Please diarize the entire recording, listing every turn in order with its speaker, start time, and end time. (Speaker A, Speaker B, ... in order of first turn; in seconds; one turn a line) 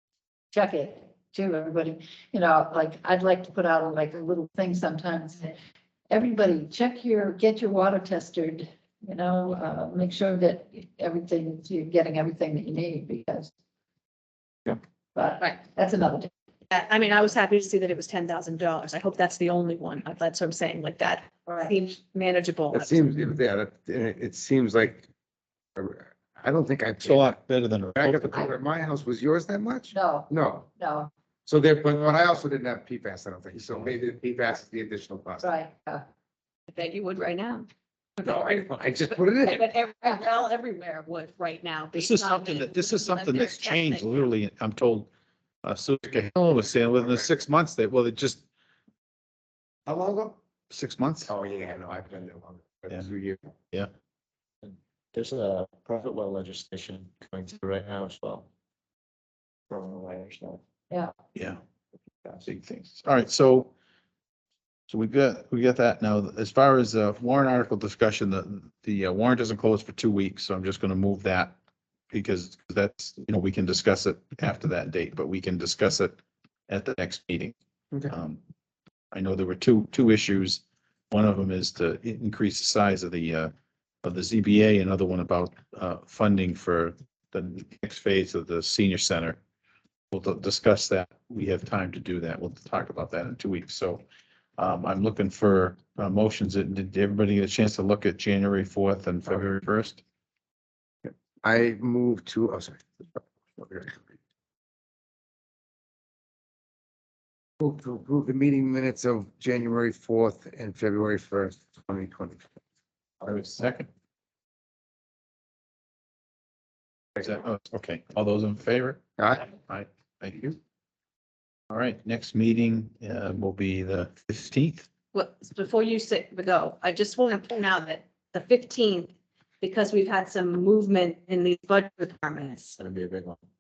Speaker A: 0.5-5.6
Speaker A: 6.1-13.5
Speaker A: 15.2-16.3
Speaker B: 16.7-23.0
Speaker A: 21.5-21.7
Speaker C: 22.7-25.1
Speaker C: 25.8-27.4
Speaker D: 27.0-28.5
Speaker C: 28.0-30.7
Speaker A: 29.9-31.1
Speaker C: 31.5-35.5
Speaker A: 35.4-36.0
Speaker B: 36.7-37.7
Speaker C: 38.2-39.6
Speaker B: 39.4-44.1
Speaker D: 42.0-45.1
Speaker D: 45.6-48.4
Speaker C: 49.9-50.4
Speaker D: 50.7-51.3
Speaker C: 51.3-53.5
Speaker E: 54.6-58.5
Speaker E: 59.7-60.6
Speaker D: 61.4-61.6
Speaker D: 62.4-63.7
Speaker D: 64.9-71.6
Speaker D: 72.1-76.2
Speaker D: 76.7-77.5
Speaker D: 78.1-78.4
Speaker D: 79.1-83.5
Speaker D: 84.0-89.4
Speaker D: 90.1-94.0
Speaker D: 94.6-100.0
Speaker C: 101.0-104.1
Speaker C: 107.6-112.5
Speaker D: 113.2-113.9
Speaker D: 117.2-120.6
Speaker C: 119.2-119.5
Speaker D: 121.7-124.9
Speaker B: 125.1-132.8
Speaker E: 132.8-133.4